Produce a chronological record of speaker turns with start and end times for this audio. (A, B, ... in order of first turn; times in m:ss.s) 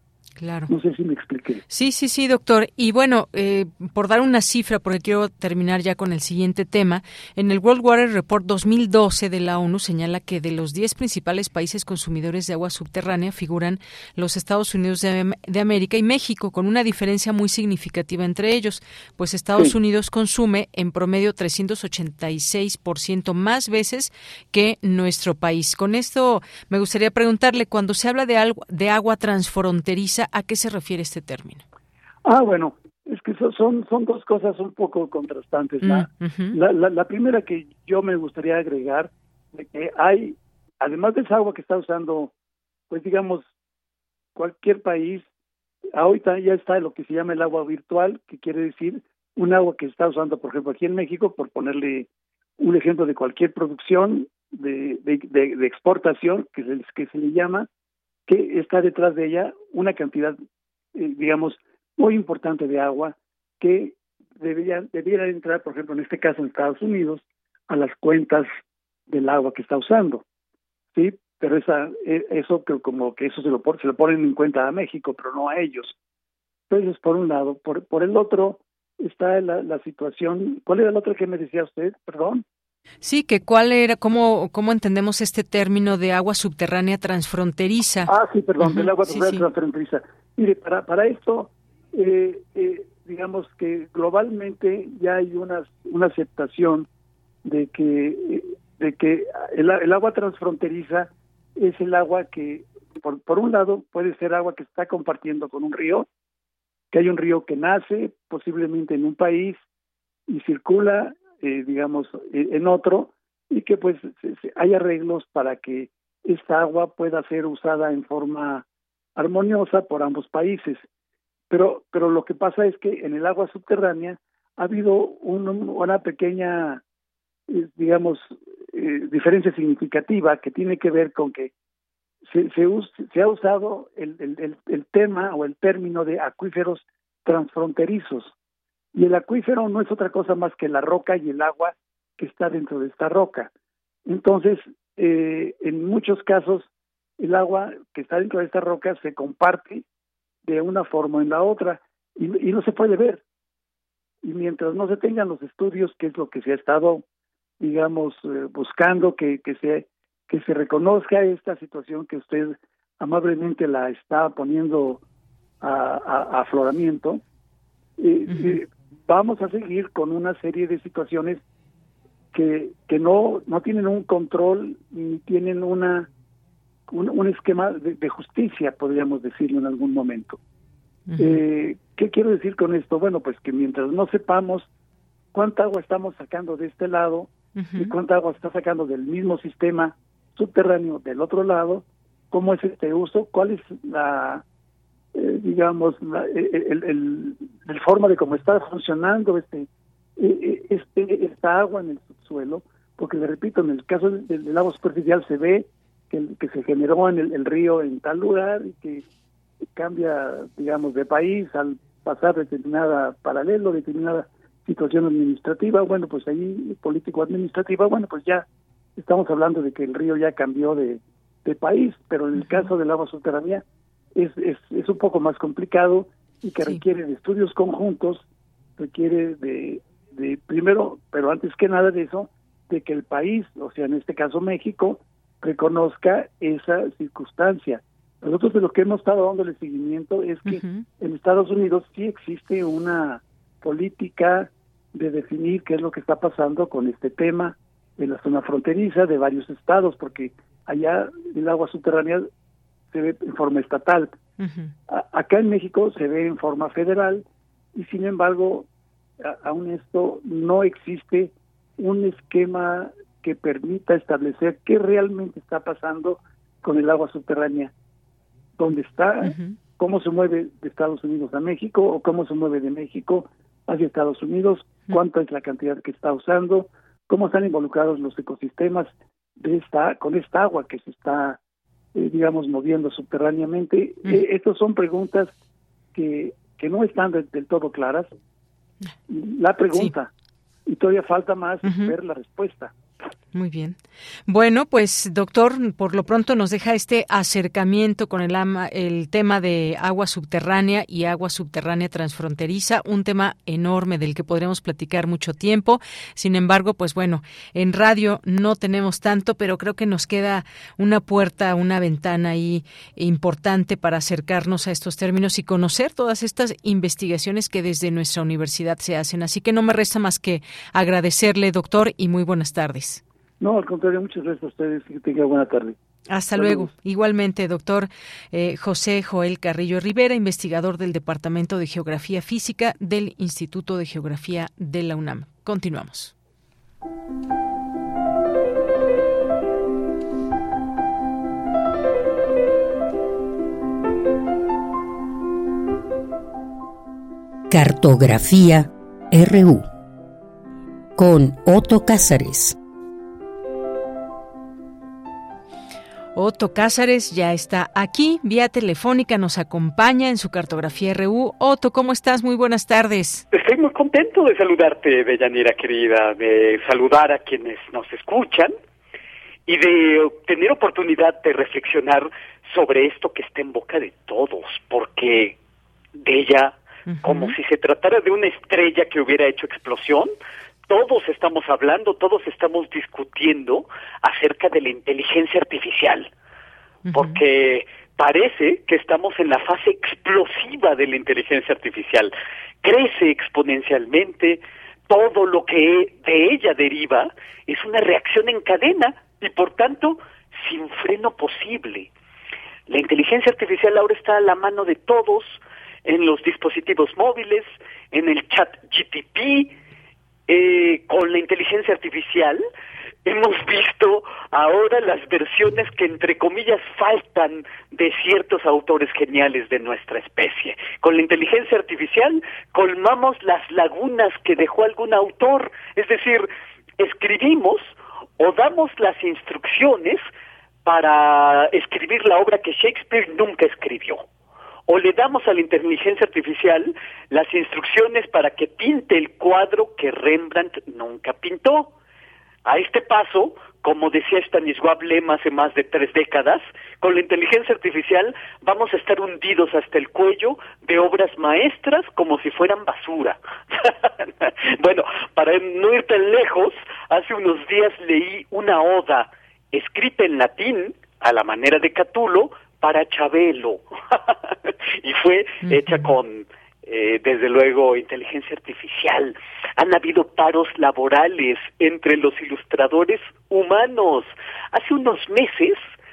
0:00.4-0:00.7 A
0:00.7-0:01.6 B
0:01.7-0:31.6 A
0:32.2-0:42.3 B
0:35.8-0:36.6 A
0:42.9-0:43.5 B
0:44.4-0:45.3 B
0:46.0-0:52.1 B
0:52.6-0:57.7 B
0:58.3-1:00.4 B
1:01.0-1:08.5 B
1:09.1-1:10.2 B
1:10.9-1:15.9 B
1:16.7-1:22.4 B
1:23.0-1:29.4 A
1:28.1-1:36.9 B
1:37.4-1:46.1 B
1:46.9-1:49.6 B
1:50.3-1:58.6 B
1:59.2-2:00.9 B
2:01.5-2:06.8 B
2:07.5-2:11.5 B
2:12.3-2:18.3 B
2:18.9-2:23.5 B
2:24.1-2:29.8 B
2:30.4-2:33.2 B
2:34.2-2:37.0 B
2:37.6-2:45.0 B
2:45.6-2:47.2 B
2:48.0-2:51.4 B
2:48.3-2:48.6 A
2:52.3-2:56.1 B
2:56.9-3:00.4 B
3:01.1-3:01.4 A
3:01.2-3:04.7 B
3:05.3-3:14.4 B
3:07.6-3:07.9 A
3:15.2-3:29.0 B
3:29.7-3:38.4 B
3:39.0-3:43.6 B
3:42.4-3:42.7 A
3:44.2-3:48.2 B
3:48.8-4:12.3 B
4:00.4-4:00.8 A
4:12.9-4:14.1 B
4:14.4-4:14.7 A
4:14.9-4:18.7 B
4:19.2-4:27.7 B
4:28.6-4:41.4 B
4:29.2-4:29.6 A
4:42.0-4:45.3 B
4:45.9-4:48.1 B
4:49.1-4:50.1 B
4:50.7-4:52.7 B
4:51.6-4:52.0 A
4:53.3-5:23.0 A
5:23.4-5:25.8 B
5:26.1-5:36.1 A
5:26.4-5:26.7 B
5:47.5-5:49.7 C
5:51.0-5:52.6 C
5:56.2-6:03.2 A
6:03.3-6:08.5 D
6:09.5-6:15.4 D
6:16.0-6:20.1 D
6:16.9-6:17.4 A
6:20.7-6:26.1 D
6:26.9-6:27.2 A
6:26.9-6:32.1 D
6:32.6-6:41.9 D
6:42.7-6:49.5 D
6:50.3-6:52.4 D
6:53.1-7:06.3 D
7:06.8-7:10.0 D
7:10.7-7:14.0 D
7:14.7-7:21.7 D
7:22.4-7:33.2 D
7:34.6-7:43.6 D
7:44.8-7:55.6 D
7:45.5-7:45.9 A